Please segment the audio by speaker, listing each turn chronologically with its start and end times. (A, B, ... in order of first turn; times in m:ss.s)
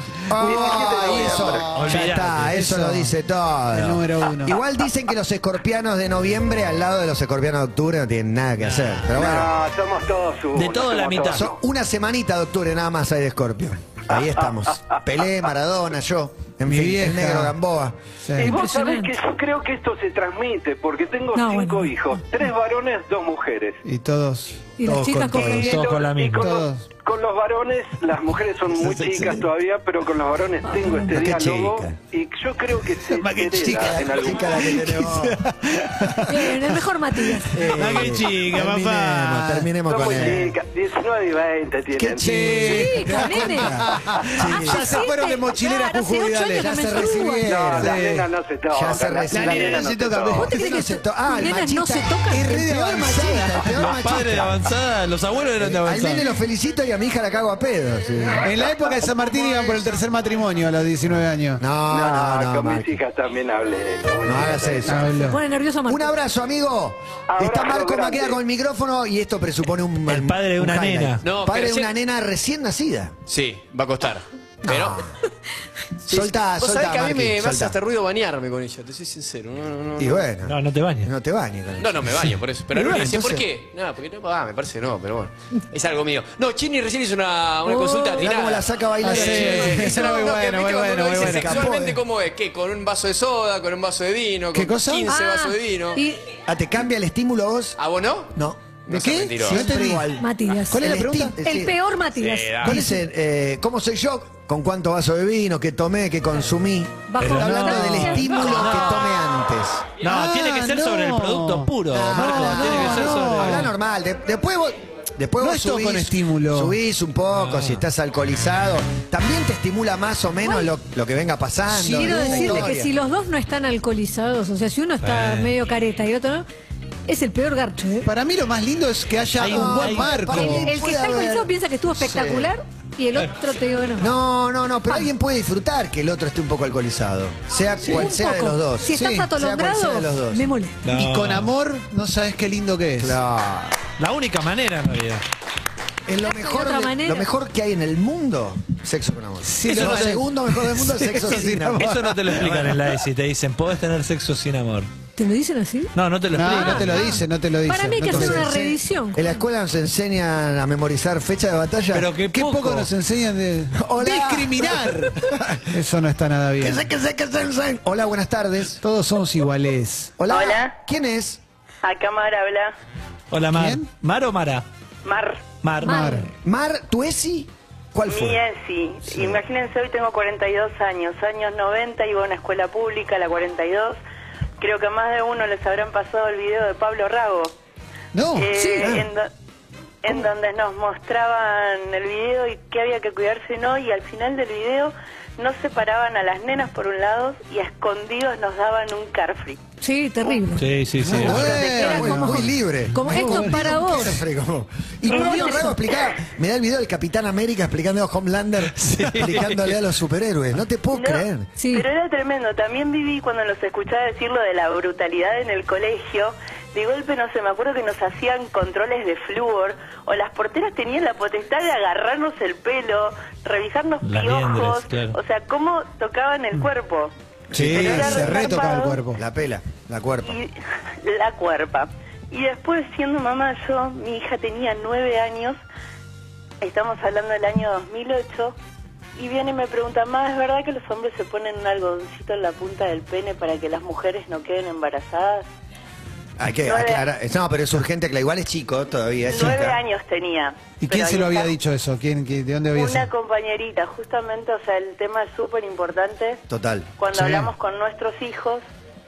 0:00.3-0:09.5 A
0:00.4-0:01.7 B
0:00.4-0:03.1 C
0:01.7-0:02.6 D
0:03.7-0:04.6 C
0:08.6-0:09.2 D
0:09.1-0:11.6 B
0:10.5-0:11.5 D
0:11.3-0:18.0 A
0:16.7-0:17.5 C
0:18.3-0:18.6 C
0:18.4-0:23.8 B
0:18.4-0:19.1 E
0:21.4-0:22.0 E
0:23.8-0:25.6 C
0:24.8-0:25.8 E
0:25.4-0:34.9 B
0:25.4-0:26.5 D
0:26.4-0:26.9 C
0:28.8-0:29.3 A
0:30.7-0:31.1 E
0:31.1-0:32.0 A
0:33.1-0:40.4 C
0:33.7-0:35.4 A
0:36.3-0:37.6 E
0:37.5-0:40.6 A
0:39.9-0:42.8 B
0:42.0-0:44.9 A
0:42.2-0:48.3 C
0:42.5-0:47.5 E
0:46.6-0:48.0 A
0:47.5-0:50.5 B
0:48.7-0:54.7 A
0:49.3-0:50.6 C
0:49.4-0:49.9 D
0:50.4-0:52.6 E
0:52.3-0:53.8 C
0:53.8-0:56.3 D
0:55.6-0:58.8 A
0:58.4-1:01.6 C
1:01.6-1:02.9 A
1:01.9-1:05.0 B
1:04.2-1:05.1 A
1:04.9-1:05.4 C
1:05.2-1:06.1 E
1:05.9-1:13.2 A
1:07.3-1:08.4 B
1:10.1-1:11.3 D
1:11.2-1:11.9 F
1:13.3-1:15.1 F
1:14.6-1:15.1 A
1:16.1-1:17.8 A
1:16.1-1:20.3 F
1:20.0-1:23.5 A
1:20.4-1:21.1 D
1:21.8-1:36.0 F
1:27.7-1:28.2 E
1:28.2-1:30.1 A
1:29.0-1:31.6 C
1:29.8-1:30.3 E
1:31.1-1:32.0 A
1:34.5-1:35.1 C
1:35.1-1:36.2 E
1:36.5-1:37.8 A
1:37.8-1:38.3 F
1:38.3-1:41.8 A
1:38.9-1:39.6 F
1:38.9-1:40.2 C
1:40.1-1:42.7 E
1:40.7-1:41.4 C
1:42.2-1:42.8 F
1:42.6-1:49.9 A
1:42.6-1:42.9 C
1:47.1-1:48.9 E
1:47.2-1:49.2 D
1:50.0-1:53.7 D
1:50.0-1:53.7 C
1:51.9-2:02.9 A
1:55.4-1:56.8 C
1:57.3-1:57.8 D
2:00.4-2:00.7 E
2:01.8-2:02.7 C
2:01.8-2:06.5 E
2:05.0-2:05.5 D
2:07.1-2:08.1 E
2:08.0-2:10.7 C
2:09.4-2:10.3 D
2:09.4-2:12.5 A
2:10.3-2:14.1 E
2:14.0-2:20.5 A
2:17.8-2:20.8 E
2:18.9-2:19.3 C
2:20.8-2:21.5 D
2:20.9-2:23.2 C
2:23.0-2:23.8 A
2:24.0-2:25.2 D
2:26.1-2:32.7 A
2:26.3-2:27.3 E
2:29.4-2:30.3 C
2:29.7-2:30.2 D
2:30.8-2:32.2 C
2:31.0-2:34.9 D
2:35.2-2:39.4 E
2:36.0-2:37.0 D
2:36.3-2:38.7 C
2:38.1-2:42.1 A
2:41.9-2:42.9 D
2:42.3-2:45.2 C
2:43.8-2:45.7 A
2:45.7-2:46.8 C
2:46.6-2:48.8 A
2:48.8-2:50.2 C
2:50.2-2:51.4 A
2:50.3-2:50.8 G
2:51.8-2:52.7 G
2:53.3-2:54.6 D
2:53.5-2:53.9 C
2:55.0-2:55.5 G
2:55.6-2:56.2 D
2:55.8-2:56.3 C
2:55.8-2:56.2 E
2:56.4-2:58.4 A
2:58.1-3:04.0 G
2:59.1-2:59.4 A
3:04.6-3:07.5 G
3:08.1-3:08.9 C
3:08.3-3:09.3 G
3:08.8-3:09.1 A
3:10.0-3:19.6 G
3:19.8-3:20.7 E
3:20.6-3:21.6 D
3:21.0-3:23.8 C
3:21.2-3:31.5 A
3:21.4-3:24.2 E
3:25.1-3:25.8 E
3:25.2-3:25.5 G
3:28.9-3:29.7 D
3:30.9-3:47.1 G
3:31.6-3:31.9 E
3:44.0-3:45.2 D
3:47.5-3:50.4 A
3:47.5-3:49.2 C
3:47.7-3:49.0 G
3:50.2-3:55.6 G
3:56.6-3:58.6 G
3:59.2-4:05.4 G
4:06.4-4:09.8 A
4:06.6-4:07.0 G
4:09.3-4:11.6 G
4:10.8-4:13.1 C
4:12.7-4:16.4 G
4:16.5-4:17.5 A
4:17.0-4:18.6 G